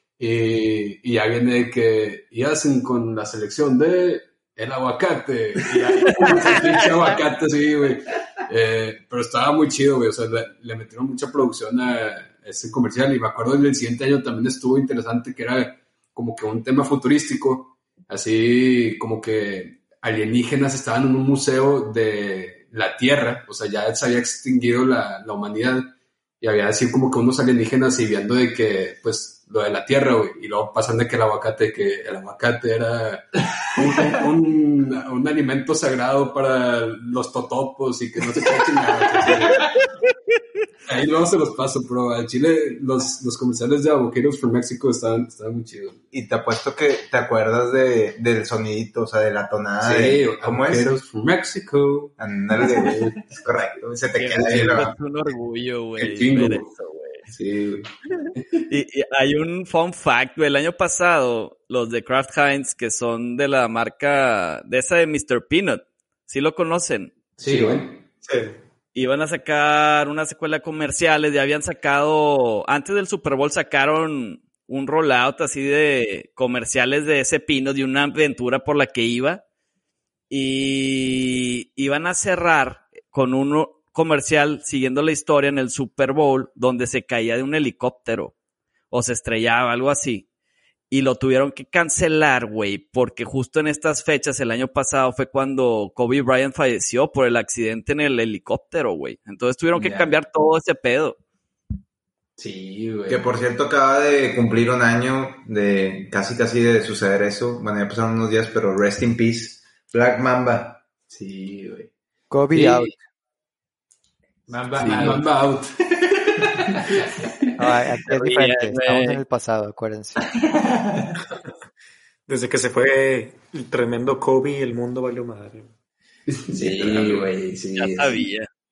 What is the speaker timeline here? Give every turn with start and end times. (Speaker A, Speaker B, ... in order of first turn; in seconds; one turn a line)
Speaker A: 0.2-39.6
Speaker B: 6.2-6.8
Speaker A: 40.9-46.0
Speaker C: 46.1-50.9
Speaker A: 49.8-53.2
Speaker C: 52.2-54.9
Speaker B: 54.2-57.2
Speaker A: 54.3-54.9
Speaker A: 56.0-56.7
Speaker A: 57.3-57.9
Speaker B: 58.2-67.2
Speaker D: 67.4-67.9
Speaker A: 67.5-67.9
Speaker E: 68.2-68.6
Speaker B: 68.9-79.4
Speaker B: 80.3-88.3
Speaker B: 88.9-90.3
Speaker B: 90.9-101.2
Speaker D: 99.8-100.1
Speaker D: 102.4-103.3
Speaker C: 103.1-110.8
Speaker D: 111.1-111.9
Speaker F: 112.3-113.0
Speaker D: 114.5-115.3
Speaker B: 114.8-115.2
Speaker A: 114.8-115.9
Speaker D: 116.7-117.0
Speaker F: 117.6-120.2
Speaker B: 118.1-119.2
Speaker D: 120.3-121.2
Speaker E: 122.3-125.7
Speaker A: 126.3-127.3
Speaker D: 126.5-128.3
Speaker B: 127.8-128.5